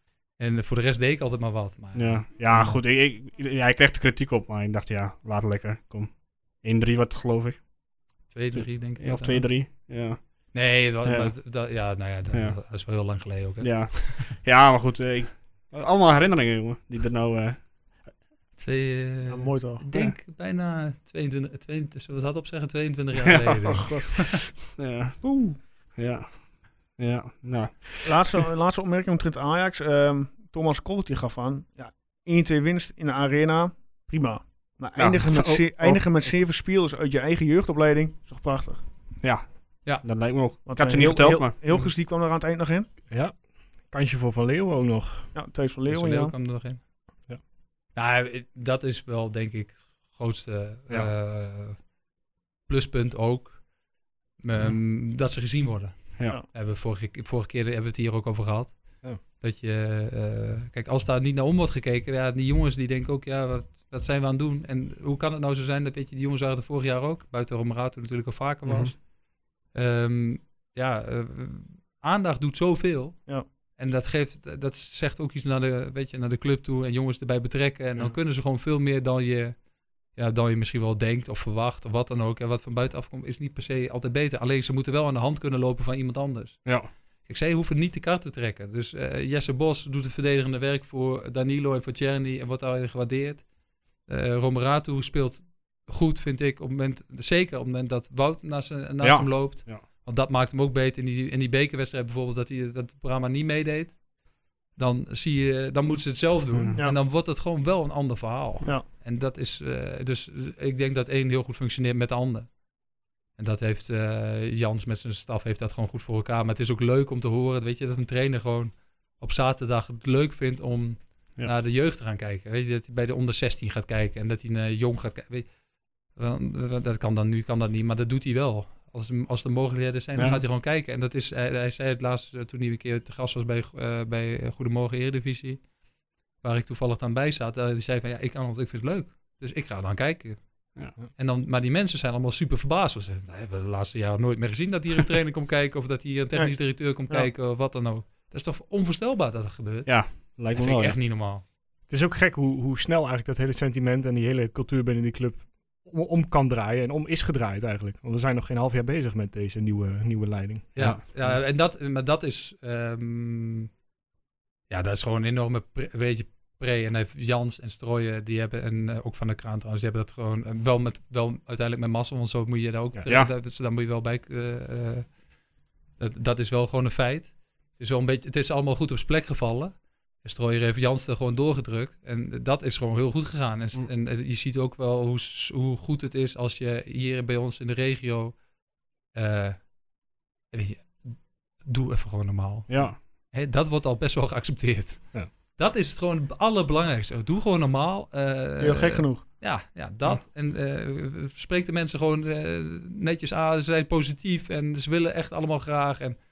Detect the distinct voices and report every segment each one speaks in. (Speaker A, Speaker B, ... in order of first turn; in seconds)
Speaker A: 0.4-2.8, 8.3-9.7, 10.5-14.3, 18.6-24.2, 45.9-46.8, 48.0-51.9, 52.7-53.7, 54.4-69.1, 69.7-79.6, 80.1-93.5, 94.0-104.0, 104.7-112.6, 113.3-135.7, 136.4-151.4, 160.7-163.7, 164.7-175.2, 176.0-188.4, 189.1-189.7, 190.5-206.2
Speaker B: 1.9-7.7, 8.5-10.2, 11.0-11.3, 12.3-12.6, 13.6-18.1, 23.2-28.2, 35.0-36.3, 39.2-41.8, 68.7-68.9, 86.7-86.9, 99.0-99.8, 130.2-130.4, 149.9-151.0, 192.7-193.0
Speaker C: 19.3-19.9, 25.2-25.6, 28.0-38.8, 40.6-42.9, 45.3-46.4, 146.3-147.3, 198.6-199.3
Speaker D: 43.1-45.4, 151.9-161.3